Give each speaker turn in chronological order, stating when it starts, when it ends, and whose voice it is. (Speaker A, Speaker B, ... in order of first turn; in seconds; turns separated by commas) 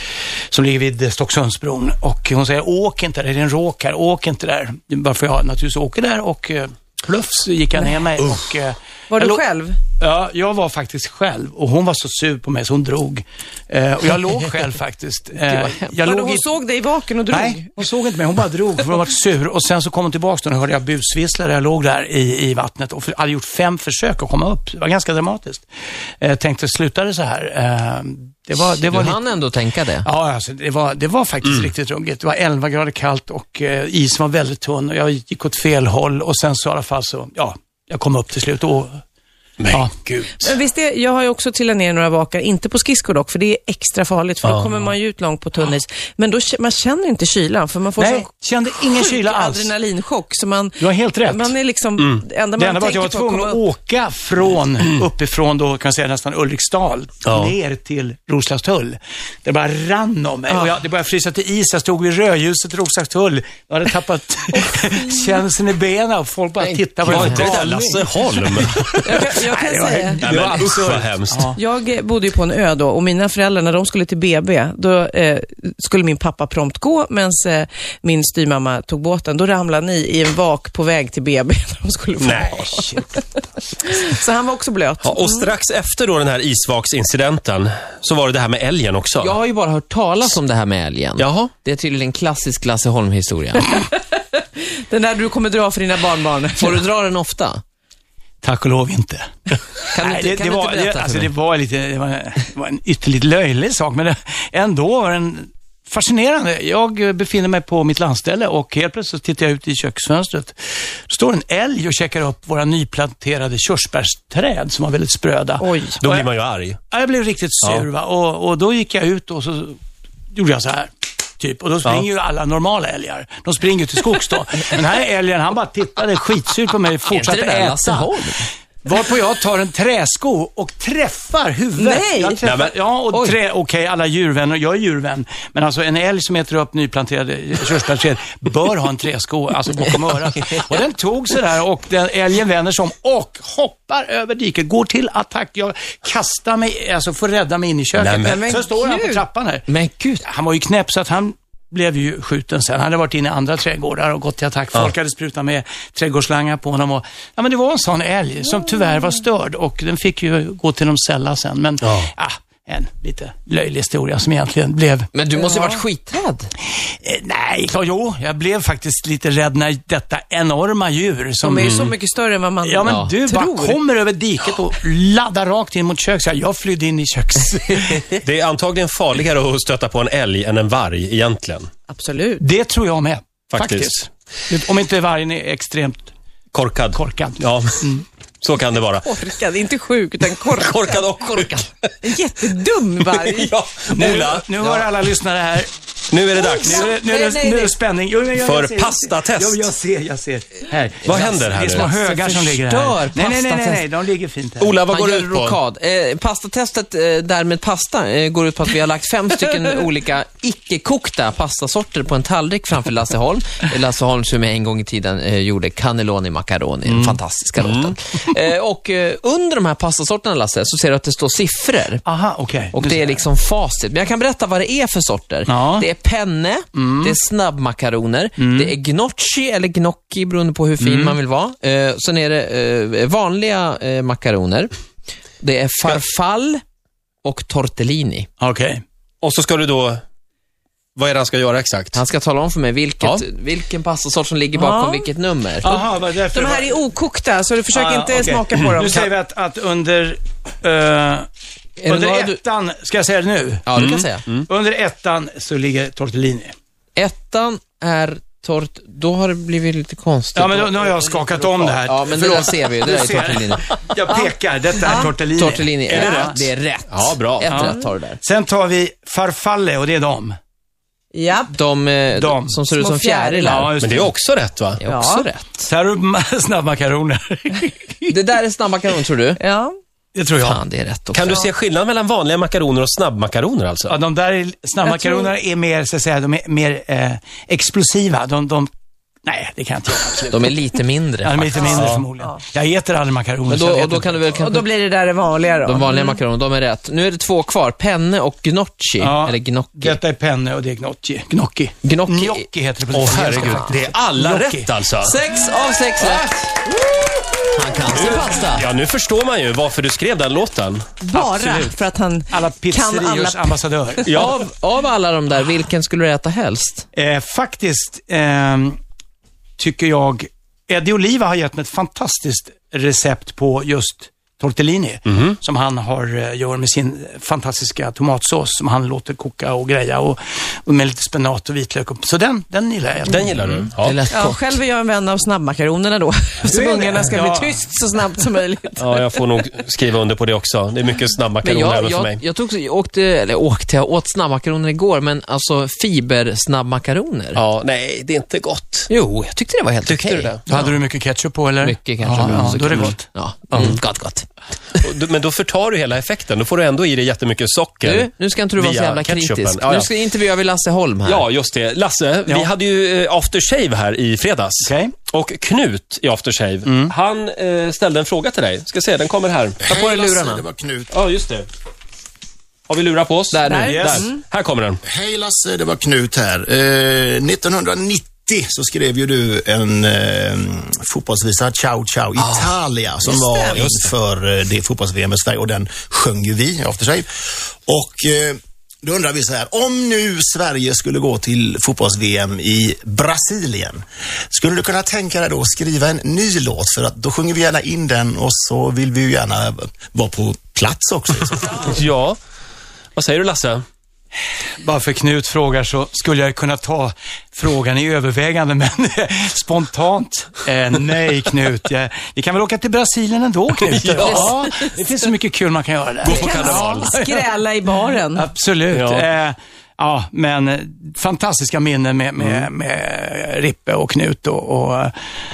Speaker A: 0.5-16.5, Speaker B: 9.1-9.8, Speaker C: 15.5-15.8, Speaker B: 16.0-17.8, Speaker A: 17.3-25.7, Speaker A: 26.2-29.2, Speaker C: 28.9-30.1, Speaker A: 30.0-39.0, Speaker D: 39.6-39.9, Speaker A: 39.7-40.5, Speaker B: 40.4-53.6, Speaker A: 48.0-49.7, Speaker A: 50.8-51.5, Speaker A: 52.6-71.6, Speaker D: 57.2-57.5, Speaker B: 60.5-60.8, Speaker B: 65.0-65.4, Speaker C: 66.6-67.7, Speaker D: 67.0-69.3, Speaker B: 69.0-70.3, Speaker D: 70.2-71.5, Speaker B: 71.5-85.5, Speaker D: 82.2-82.7, Speaker A: 82.5-83.2, Speaker D: 85.0-89.3, Speaker C: 89.2-93.7, Speaker D: 91.2-91.5, Speaker B: 93.7-96.8, Speaker C: 96.6-97.6, Speaker A: 98.4-110.5, Speaker C: 99.9-101.3, Speaker A: 111.1-116.2, Speaker B: 115.6-116.0, Speaker D: 116.0-116.8, Speaker A: 116.9-119.8, Speaker A: 120.3-128.1, Speaker C: 127.1-128.5, Speaker A: 128.8-149.7, Speaker B: 131.8-132.4, Speaker D: 132.4-132.8, Speaker D: 147.9-148.4, Speaker B: 148.2-149.2, Speaker C: 149.7-150.2, Speaker A: 150.2-165.1, Speaker D: 161.8-162.1, Speaker C: 165.1-166.5, Speaker B: 165.4-165.8, Speaker A: 166.8-171.9, Speaker B: 171.4-173.8, Speaker D: 171.6-171.9, Speaker A: 172.6-178.1, Speaker C: 172.8-173.1, Speaker D: 178.2-181.7, Speaker B: 181.9-182.4, Speaker A: 182.4-186.1, Speaker D: 183.5-184.0, Speaker D: 186.5-187.9, Speaker A: 186.9-188.0, Speaker D: 188.4-189.2, Speaker B: 188.9-191.1, Speaker D: 190.5-192.1, Speaker C: 191.3-191.6, Speaker B: 192.0-193.5, Speaker D: 193.1-194.7, Speaker A: 193.9-195.7, Speaker D: 196.1-196.9, Speaker A: 196.3-204.8, Speaker C: 196.7-197.8, Speaker D: 198.4-199.7, Speaker D: 201.0-201.9, Speaker C: 201.1-203.8, Speaker D: 204.6-205.6, Speaker C: 204.9-222.0, Speaker A: 216.8-217.2, Speaker D: 217.6-217.9, Speaker A: 222.0-223.2, Speaker C: 222.7-234.7, Speaker A: 225.5-225.9, Speaker A: 226.7-227.2, Speaker A: 228.4-228.7, Speaker A: 230.8-231.2, Speaker C: 235.4-236.6, Speaker C: 237.2-238.3, Speaker A: 238.4-238.8, Speaker D: 239.2-240.0, Speaker D: 240.9-242.0, Speaker C: 241.9-245.8, Speaker B: 244.5-245.1, Speaker A: 245.6-246.8, Speaker B: 246.3-249.1, Speaker A: 247.7-251.3, Speaker C: 251.8-252.4, Speaker A: 251.8-256.5, Speaker C: 253.7-254.3, Speaker D: 253.8-254.0, Speaker C: 256.9-263.7, Speaker A: 260.3-266.5, Speaker B: 264.8-265.1, Speaker C: 265.2-268.2, Speaker D: 265.9-267.6, Speaker A: 267.5-270.3, Speaker B: 271.1-271.6, Speaker C: 271.5-273.7, Speaker A: 272.1-272.6, Speaker B: 272.6-273.7, Speaker A: 273.4-274.1, Speaker D: 273.8-274.8, Speaker C: 274.8-275.7, Speaker B: 274.8-275.3, Speaker A: 275.6-278.1, Speaker C: 278.1-279.4, Speaker B: 279.4-279.7, Speaker A: 280.1-280.6, Speaker C: 280.4-281.4, Speaker D: 281.1-283.9, Speaker A: 283.9-288.7, Speaker B: 284.9-285.3, Speaker A: 289.2-290.6, Speaker C: 290.3-291.7, Speaker A: 291.2-294.2, Speaker B: 291.6-292.4, Speaker D: 291.7-292.1, Speaker C: 293.5-294.7, Speaker B: 294.3-296.2, Speaker C: 295.6-300.0, Speaker A: 299.0-304.7, Speaker C: 301.8-302.5, Speaker D: 302.9-305.2, Speaker C: 303.1-303.7, Speaker C: 305.0-306.6, Speaker A: 306.0-308.1, Speaker C: 307.5-308.7, Speaker D: 307.9-310.9, Speaker B: 311.0-313.6, Speaker A: 311.1-311.7, Speaker A: 312.3-314.3, Speaker D: 314.1-314.4, Speaker C: 314.1-316.8, Speaker A: 316.9-318.8, Speaker A: 319.6-333.5, Speaker D: 325.1-325.3, Speaker D: 333.1-333.9, Speaker C: 333.8-334.4, Speaker B: 334.1-339.2, Speaker A: 336.4-337.5, Speaker D: 338.8-342.2, Speaker C: 341.4-347.4, Speaker D: 347.3-348.9, Speaker C: 348.9-350.4, Speaker D: 349.8-350.6, Speaker A: 350.5-353.7, Speaker C: 351.6-354.2, Speaker D: 353.5-353.8, Speaker D: 354.8-359.9, Speaker C: 357.8-361.2, Speaker D: 361.0-369.6, Speaker A: 364.6-364.9, Speaker A: 366.6-366.9, Speaker E: 369.6-370.9, Speaker C: 369.6-370.4, Speaker D: 370.9-371.4, Speaker D: 372.7-374.8, Speaker C: 373.3-374.1, Speaker B: 373.5-374.2, Speaker A: 373.6-374.1, Speaker E: 374.8-387.1, Speaker B: 383.1-383.6, Speaker E: 387.7-401.7, Speaker D: 401.6-402.2, Speaker D: 402.9-403.6, Speaker A: 404.6-424.9, Speaker D: 413.7-414.3, Speaker D: 416.0-416.9, Speaker B: 416.1-418.3, Speaker D: 418.7-419.1